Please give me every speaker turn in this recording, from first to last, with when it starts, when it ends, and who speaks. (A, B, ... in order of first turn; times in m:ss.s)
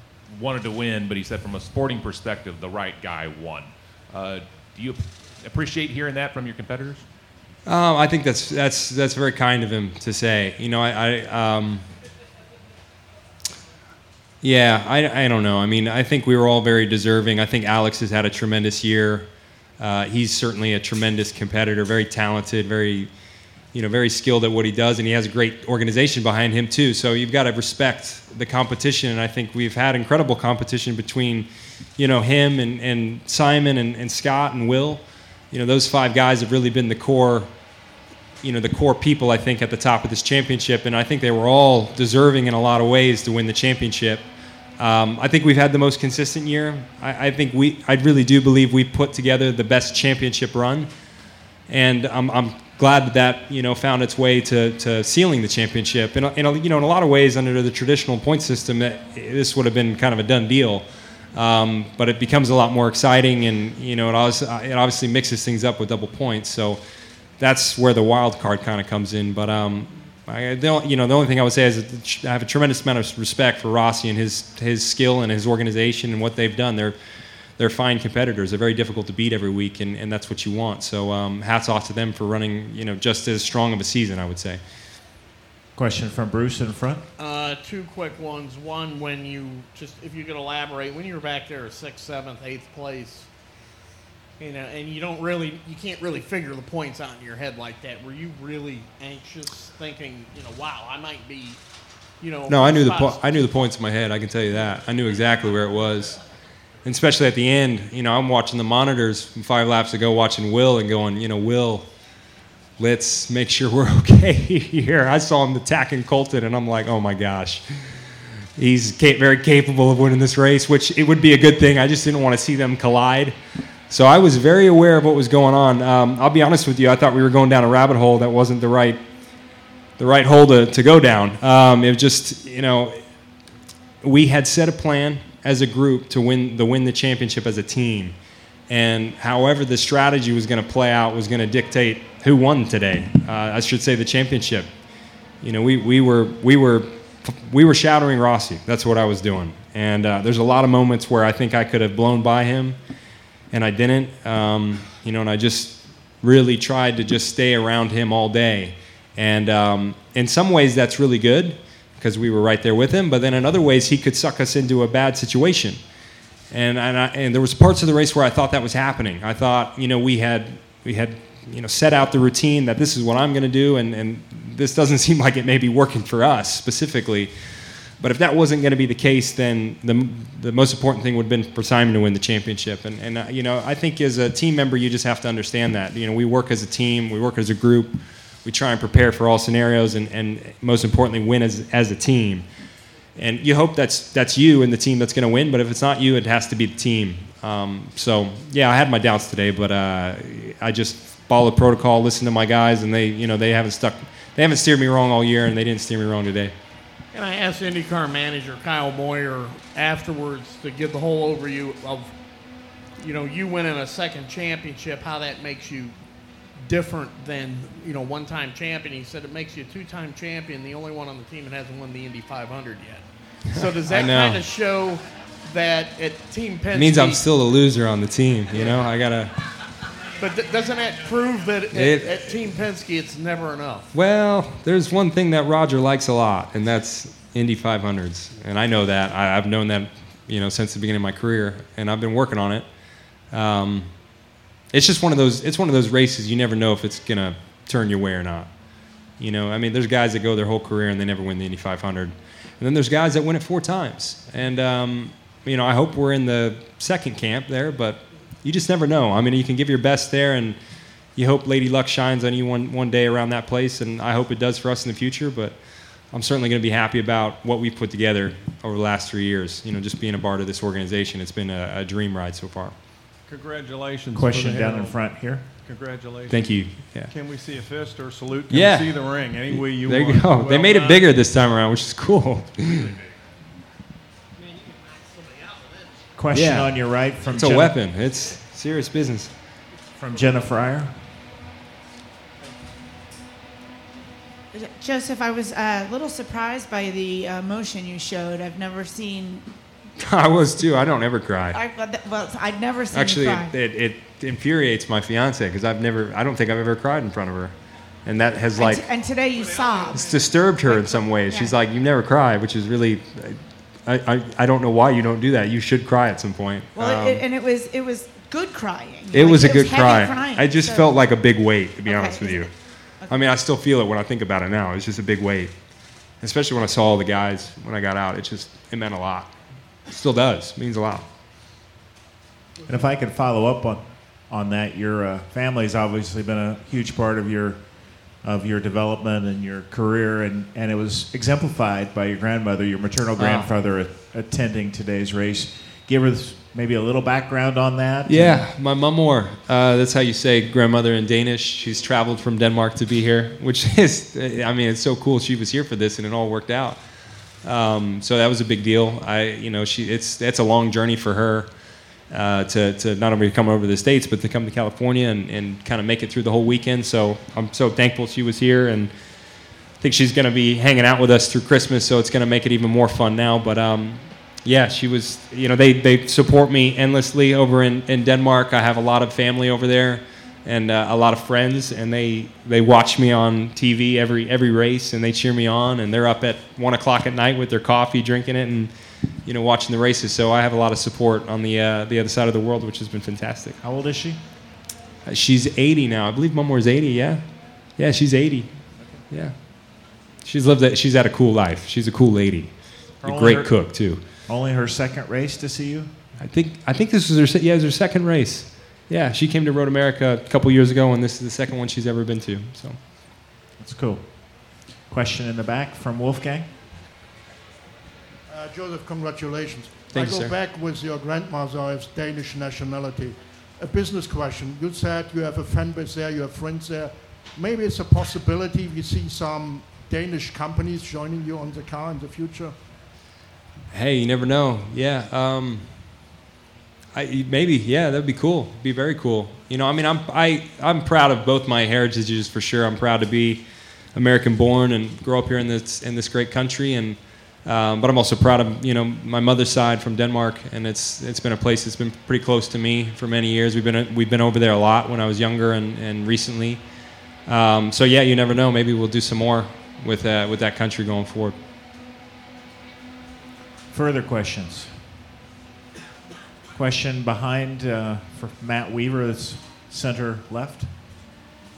0:00.4-0:03.6 A
0:04.2-0:04.9 A
0:05.5-0:07.0 A
0:07.6-0:11.9 B
0:14.4-0:19.3 B
0:19.8-0:23.1 B
0:23.7-0:37.5 B
0:38.4-0:44.3 B
0:44.8-0:50.9 B
0:51.7-1:06.8 B
1:07.4-1:17.0 B
1:17.6-1:24.6 B
1:25.7-1:27.0 C
1:27.2-1:33.3 D
1:34.4-1:41.6 D
1:42.2-1:43.3 D
1:42.5-1:46.2 B
1:46.8-1:51.9 B
1:52.8-2:03.4 B
2:03.9-2:09.0 B
2:10.0-2:13.0 B
2:14.0-2:18.1 B
2:18.7-2:24.7 B
2:25.4-2:32.8 B
2:33.5-2:45.8 B
2:46.5-2:57.3 B
2:58.0-3:12.4 B
3:13.2-3:26.5 B
3:27.1-3:32.1 D
3:33.0-3:35.9 D
3:36.6-3:47.2 D
3:43.8-3:44.4 B
3:46.7-3:49.3 B
3:50.2-3:53.9 D
3:51.7-3:52.3 B
3:53.9-4:02.6 B
4:03.3-4:03.9 B
4:04.7-4:08.5 B
4:09.2-4:20.6 B
4:21.1-4:32.7 B
4:34.1-4:34.9 E
4:34.1-4:35.5 C
4:35.7-4:36.3 E
4:36.3-4:37.1 B
4:37.2-4:38.5 E
4:38.5-4:42.9 B
4:40.2-4:40.5 E
4:46.1-4:47.8 C
4:46.3-4:46.7 B
4:47.3-4:49.3 B
4:50.0-4:51.0 C
4:54.5-4:59.4 F
5:00.0-5:01.6 B
5:01.5-5:03.5 F
5:02.9-5:08.9 B
5:08.5-5:11.6 F
5:09.9-5:17.2 B
5:16.7-5:20.9 F
5:19.1-5:25.6 B
5:21.8-5:23.1 F
5:26.2-5:29.3 B
5:29.9-5:31.0 B
5:32.6-5:48.5 C
5:43.2-5:43.5 B
5:48.0-5:56.8 B
5:57.4-6:01.5 B
6:02.1-6:08.9 B
6:09.8-6:28.7 B
6:29.2-6:33.6 B
6:33.6-6:34.2 C
6:35.0-6:44.0 B
6:43.0-6:45.9 C
6:46.2-6:52.8 B
6:53.6-6:56.5 C
6:58.3-7:12.5 G
6:59.9-7:00.3 B
7:13.7-7:15.8 B
7:16.9-7:36.6 B
7:37.3-7:41.4 B
7:43.7-7:44.9 C
7:46.5-7:50.7 C